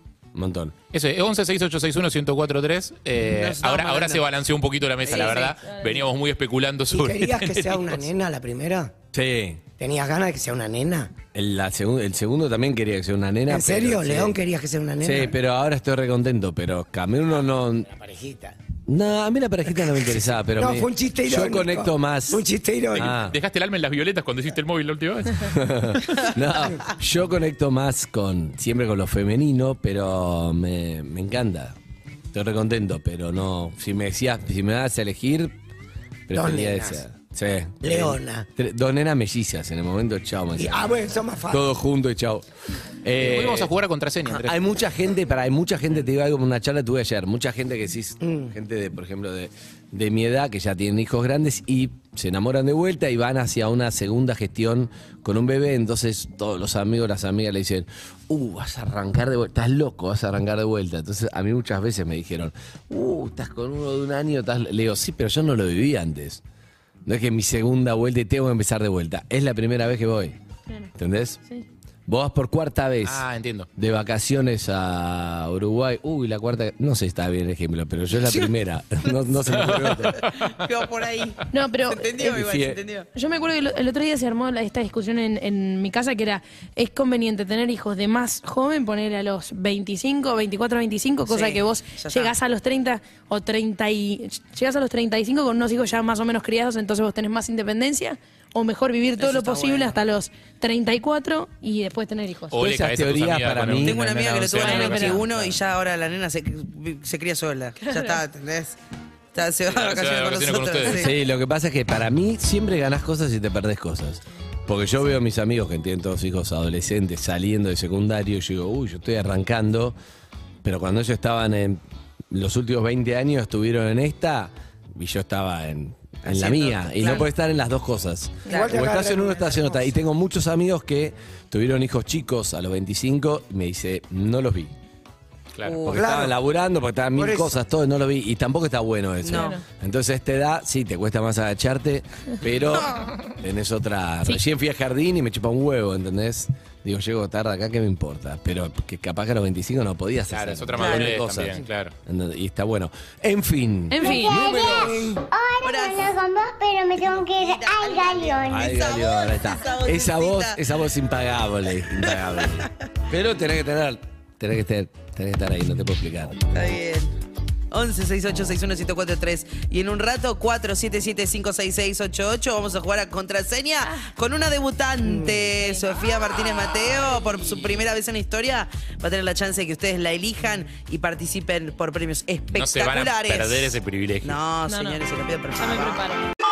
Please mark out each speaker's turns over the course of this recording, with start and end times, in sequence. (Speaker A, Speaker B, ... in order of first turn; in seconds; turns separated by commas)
Speaker A: 0.3-0.7, Speaker B: 0.9-8.0, Speaker C: 3.2-4.2, Speaker C: 5.0-5.6, Speaker D: 5.2-5.5, Speaker E: 6.9-8.9, Speaker A: 9.1-9.6, Speaker E: 9.8-11.1, Speaker A: 11.3-14.4, Speaker E: 13.5-15.3, Speaker A: 15.0-17.9, Speaker E: 17.9-18.6, Speaker A: 18.9-22.4, Speaker E: 20.6-23.1, Speaker A: 22.9-23.4, Speaker B: 23.0-26.3, Speaker A: 25.4-31.8, Speaker A: 32.3-35.5, Speaker A: 36.3-41.0, Speaker E: 36.3-37.0, Speaker E: 37.8-38.5, Speaker E: 40.5-41.7, Speaker A: 41.5-42.4, Speaker A: 43.0-43.7, Speaker B: 43.2-44.6, Speaker A: 44.3-66.4, Speaker E: 48.2-48.5, Speaker A: 67.0-70.3, Speaker A: 71.0-71.4, Speaker A: 72.1-73.2, Speaker B: 73.0-73.7, Speaker A: 73.8-80.2, Speaker B: 79.5-80.7, Speaker C: 79.7-83.1, Speaker D: 81.5-82.3, Speaker A: 82.2-82.8, Speaker D: 83.1-102.6, Speaker C: 91.2-92.3, Speaker C: 99.2-100.0, Speaker B: 102.5-105.6, Speaker A: 102.6-104.0, Speaker C: 103.8-108.8, Speaker D: 104.5-105.2, Speaker D: 107.8-108.2, Speaker C: 109.3-111.1, Speaker B: 109.7-111.1, Speaker A: 111.0-120.0, Speaker A: 120.6-134.7, Speaker C: 126.2-127.3, Speaker C: 128.4-128.8, Speaker E: 128.5-129.9, Speaker B: 135.5-135.9, Speaker C: 135.6-136.2, Speaker A: 135.8-155.2, Speaker E: 135.9-136.3, Speaker E: 137.2-137.6, Speaker C: 139.2-139.6, Speaker D: 139.3-139.6, Speaker C: 142.7-143.0, Speaker B: 150.3-151.9, Speaker C: 150.7-151.2, Speaker D: 153.9-154.5, Speaker F: 154.0-159.4, Speaker C: 155.6-156.2, Speaker C: 156.9-160.6, Speaker A: 158.5-166.4, Speaker C: 162.0-162.7, Speaker C: 166.5-167.1, Speaker C: 167.7-186.0, Speaker E: 175.0-175.4, Speaker B: 182.5-184.4, Speaker D: 184.7-185.0, Speaker D: 185.5-186.3